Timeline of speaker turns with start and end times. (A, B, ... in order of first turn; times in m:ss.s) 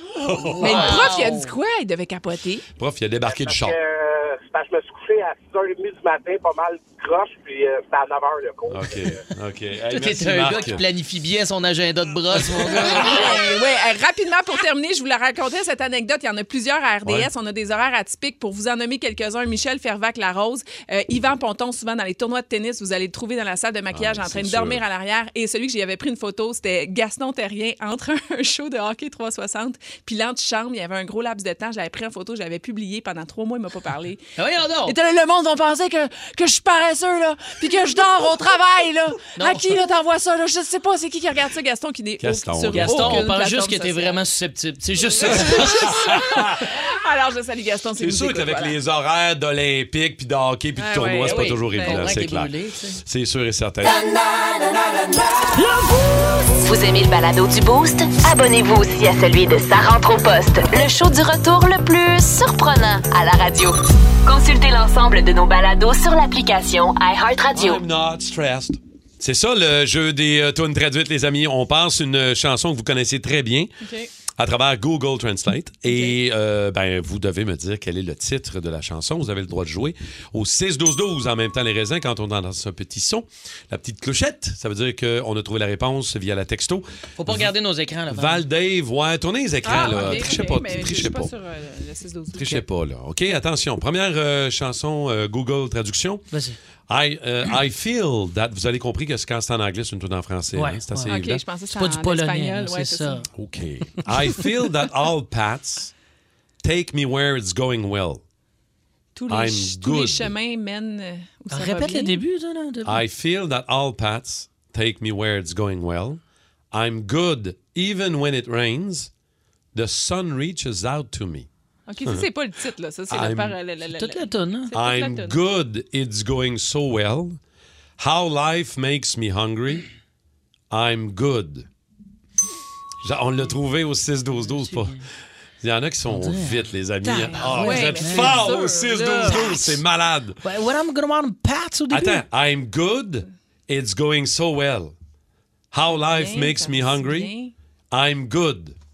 0:00.2-0:01.2 A
0:00.4-0:01.5 B
0:00.6-0:02.6 C
0:02.8-0:03.8 A
0:03.2-0:09.2 D
0:08.7-0:10.8 A
0:09.9-0:13.3 B
0:12.3-0:13.4 A
0:12.9-0:34.2 C
0:17.0-0:17.3 A
0:23.9-0:24.8 A
0:34.4-0:34.9 B
0:34.8-0:44.2 C
0:39.3-0:39.7 B
0:42.2-0:43.3 A
0:42.7-0:45.9 B
0:45.2-0:48.8 C
0:45.2-0:46.6 A
0:48.0-0:54.1 A
0:50.8-0:52.1 C
0:51.2-0:53.0 B
0:56.6-1:07.8 E
1:07.5-1:13.7 A
1:13.8-1:14.1 C
1:14.4-1:27.5 A
1:15.9-1:16.2 C
1:27.2-1:28.4 B
1:28.1-1:31.3 A
1:29.6-1:32.5 C
1:32.3-1:36.2 A
1:36.3-1:36.6 B
1:36.9-1:41.4 A
1:40.5-1:43.3 B
1:41.1-1:43.3 C
1:43.4-1:45.9 A
1:46.6-1:48.2 A
1:49.1-1:52.2 C
1:49.3-1:50.3 A
1:51.5-1:53.0 B
1:52.8-1:56.2 A
1:56.7-1:59.1 A
1:59.7-2:01.5 A
2:01.9-2:05.4 C
2:03.1-2:03.6 A
2:03.9-2:04.7 B
2:04.7-2:07.4 A
2:08.0-2:09.8 A
2:10.7-2:11.6 A
2:13.0-2:15.0 A
2:14.4-2:15.0 B
2:15.6-2:20.4 A
2:16.1-2:18.5 B
2:17.1-2:19.8 C
2:20.4-2:22.2 B
2:21.9-2:24.9 A
2:25.7-2:27.3 A
2:25.9-2:27.5 C
2:27.9-2:28.8 A